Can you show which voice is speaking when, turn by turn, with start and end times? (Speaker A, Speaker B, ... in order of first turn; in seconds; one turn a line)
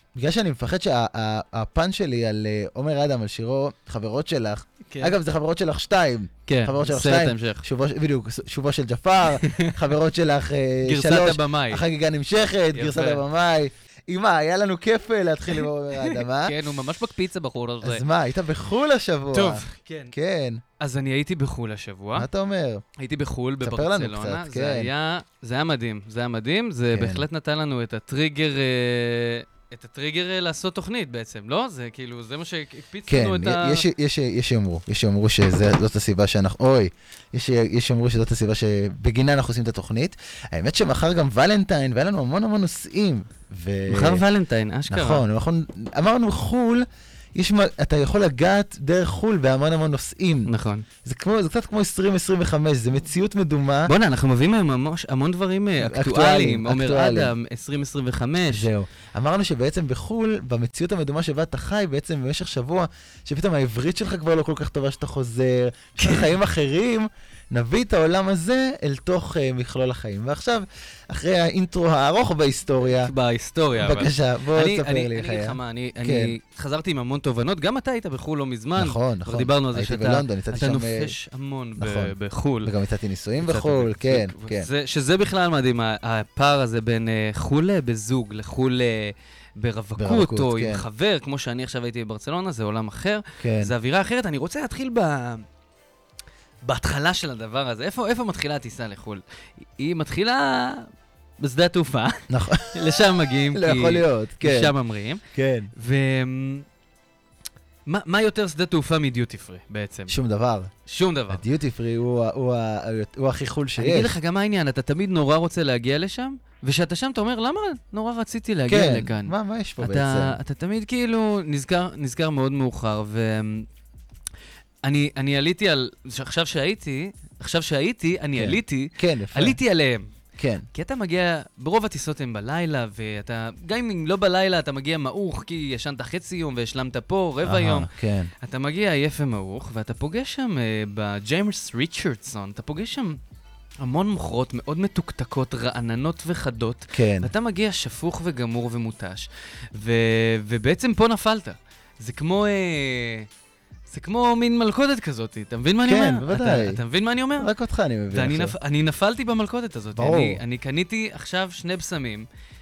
Speaker A: 0.1-16.6
Speaker B: 4.9-5.2
Speaker B: 6.5-7.7
Speaker B: 9.2-9.8
Speaker B: 10.8-11.8
Speaker B: 12.7-13.2
Speaker B: 15.5-18.0
Speaker A: 17.8-20.6
Speaker B: 19.3-20.1
Speaker B: 20.8-22.3
Speaker A: 22.1-22.8
Speaker B: 23.0-33.9
Speaker A: 23.6-24.9
Speaker A: 26.9-27.3
Speaker A: 33.1-44.2
Speaker B: 43.9-45.2
Speaker A: 44.9-50.5
Speaker B: 50.5-50.9
Speaker A: 51.0-53.9
Speaker B: 53.9-58.7
Speaker A: 55.8-57.3
Speaker A: 58.4-73.1
Speaker B: 66.0-66.3
Speaker B: 72.8-82.7
Speaker A: 73.8-76.3
Speaker A: 78.8-81.2
Speaker A: 81.8-84.7
Speaker B: 83.4-95.5
Speaker A: 90.0-90.8
Speaker A: 93.4-93.7
Speaker B: 96.7-99.2
Speaker B: 99.8-100.9
Speaker B: 101.4-105.2
Speaker A: 102.3-104.7
Speaker A: 105.3-105.7
Speaker B: 105.8-106.7
Speaker B: 107.9-110.2
Speaker A: 110.1-110.7
Speaker B: 110.9-111.4
Speaker A: 111.3-114.2
Speaker B: 113.8-123.7
Speaker A: 118.7-120.4
Speaker B: 124.8-130.1
Speaker A: 128.4-129.6
Speaker A: 130.4-130.7
Speaker B: 130.7-137.9
Speaker A: 137.4-138.3
Speaker B: 138.4-143.2
Speaker B: 143.8-153.3
Speaker A: 146.9-147.3
Speaker B: 153.9-157.5
Speaker A: 155.9-156.8
Speaker A: 157.4-158.6
Speaker B: 158.1-162.3
Speaker A: 160.0-160.4